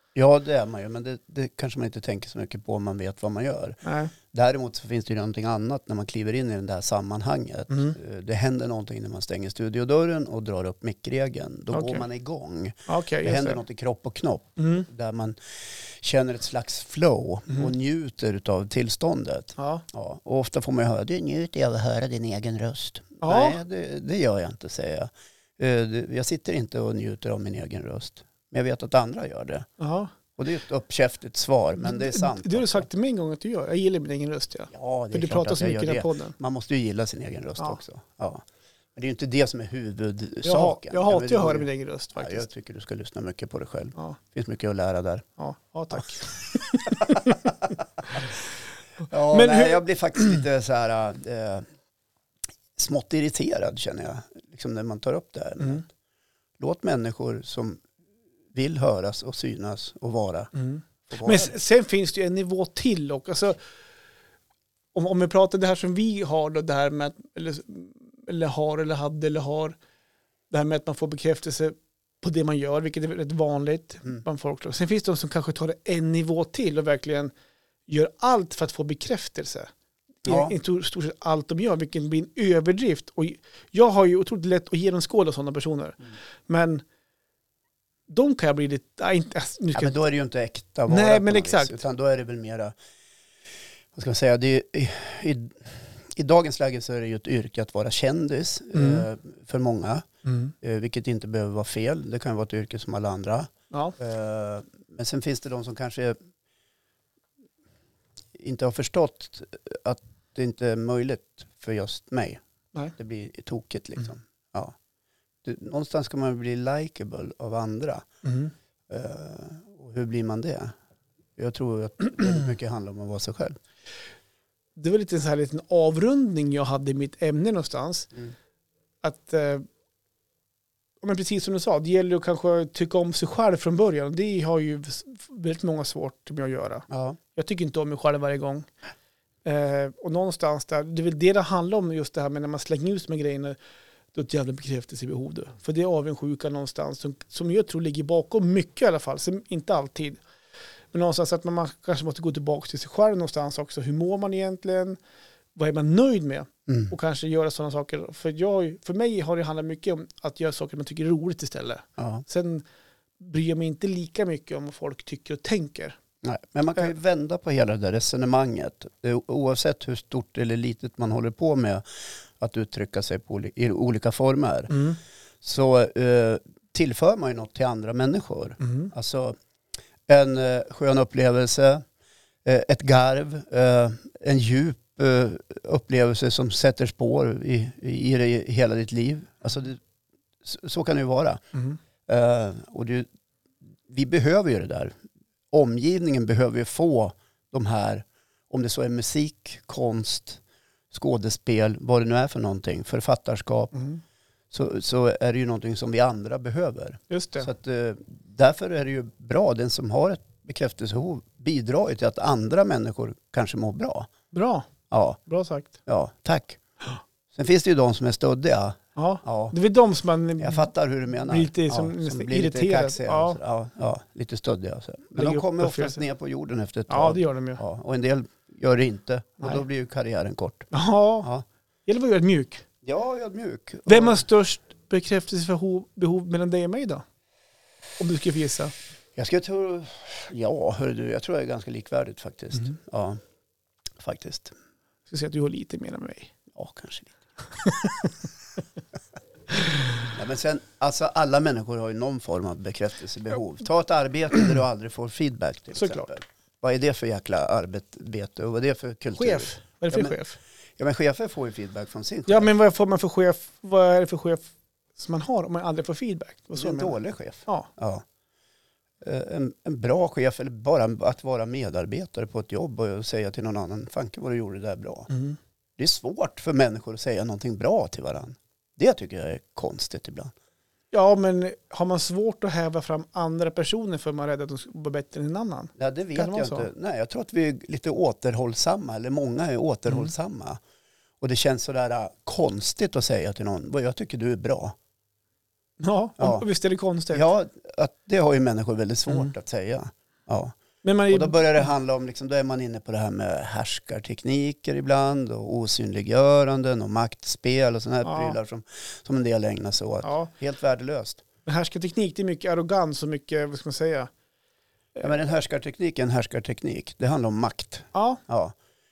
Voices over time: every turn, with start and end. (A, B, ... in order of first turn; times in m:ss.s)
0:00.2-0:03.8 A
0:03.8-0:04.1 B
0:04.3-0:29.7 A
0:07.7-0:08.0 B
0:11.7-0:12.0 B
0:12.9-0:13.6 B
0:14.6-0:14.9 B
0:19.6-0:19.8 B
0:23.2-0:23.6 B
0:29.8-0:30.1 B
0:30.4-0:32.9 A
0:31.8-0:36.4 B
0:34.7-0:38.4 A
0:39.0-0:45.3 A
0:40.4-0:42.4 B
0:45.4-0:47.4 B
0:46.7-0:47.2 A
0:49.1-0:51.6 A
0:49.3-0:50.4 B
0:52.8-0:55.9 A
0:56.6-0:57.8 A
0:58.5-1:00.5 A
1:00.6-1:03.6 B
1:01.1-1:01.6 A
1:04.9-1:09.8 B
1:10.5-1:17.3 B
1:17.9-1:19.7 B
1:20.3-1:20.6 A
1:20.3-1:26.8 B
1:28.1-1:30.0 B
1:29.7-1:32.7 A
1:30.9-1:31.8 B
1:33.9-1:40.1 A
1:38.8-1:39.1 B
1:40.2-1:40.5 B
1:40.6-1:46.2 A
1:43.7-1:44.0 B
1:48.4-1:52.4 A
1:53.0-1:54.8 A
1:55.4-1:58.1 A
1:58.2-1:58.5 B
1:58.9-2:00.7 A
2:01.4-2:03.6 A
2:04.8-2:08.1 B
2:09.0-2:09.7 B
2:11.0-2:18.7 B
2:16.9-2:17.2 A
2:19.4-2:23.6 B
2:24.1-2:30.2 B
2:30.9-2:35.0 B
2:35.6-2:42.6 B
2:36.7-2:36.9 A
2:42.0-2:42.2 A
2:43.2-2:46.0 B
2:46.2-2:54.9 A
2:54.7-2:55.0 B
2:55.4-2:59.4 A
2:58.6-2:58.9 B
3:00.1-3:01.8 A
3:02.4-3:09.8 A
3:10.4-3:11.4 A
3:12.1-3:13.1 A
3:13.9-3:15.0 A
3:15.5-3:23.8 A
3:23.8-3:24.0 B
3:24.5-3:34.1 A
3:27.1-3:27.5 B
3:34.3-3:34.7 B
3:34.9-3:35.2 A
3:35.3-3:35.7 B
3:35.9-3:36.6 A
3:37.3-3:39.6 A
3:39.0-3:43.4 B
3:40.4-3:51.4 A
3:45.2-3:46.0 B
3:46.9-3:47.6 B
3:50.7-3:51.3 B
3:51.9-3:52.6 B
3:52.8-3:54.2 A
3:53.9-3:57.0 B
3:58.0-3:58.7 B
3:59.2-4:03.2 A
4:04.0-4:04.6 A
4:05.1-4:06.3 B
4:06.6-4:07.3 A
4:07.6-4:08.1 B
4:09.5-4:10.1 B
4:10.1-4:20.2 A
4:15.8-4:16.1 B
4:19.2-4:20.4 B
4:20.8-4:22.5 A
4:22.3-4:27.0 B
4:26.6-4:28.0 A
4:29.0-4:35.1 A
4:35.1-4:35.4 B
4:35.8-4:40.3 A
4:40.9-4:46.7 B
4:45.8-4:50.6 A
4:51.2-4:54.8 A
4:55.8-4:57.3 B
4:56.2-4:56.5 A
4:57.1-5:00.6 A
5:00.8-5:01.7 B
5:01.1-5:11.2 A
5:08.0-5:08.4 B
5:10.0-5:10.3 B
5:11.5-5:14.1 B
5:15.0-5:18.6 A
5:17.9-5:18.2 B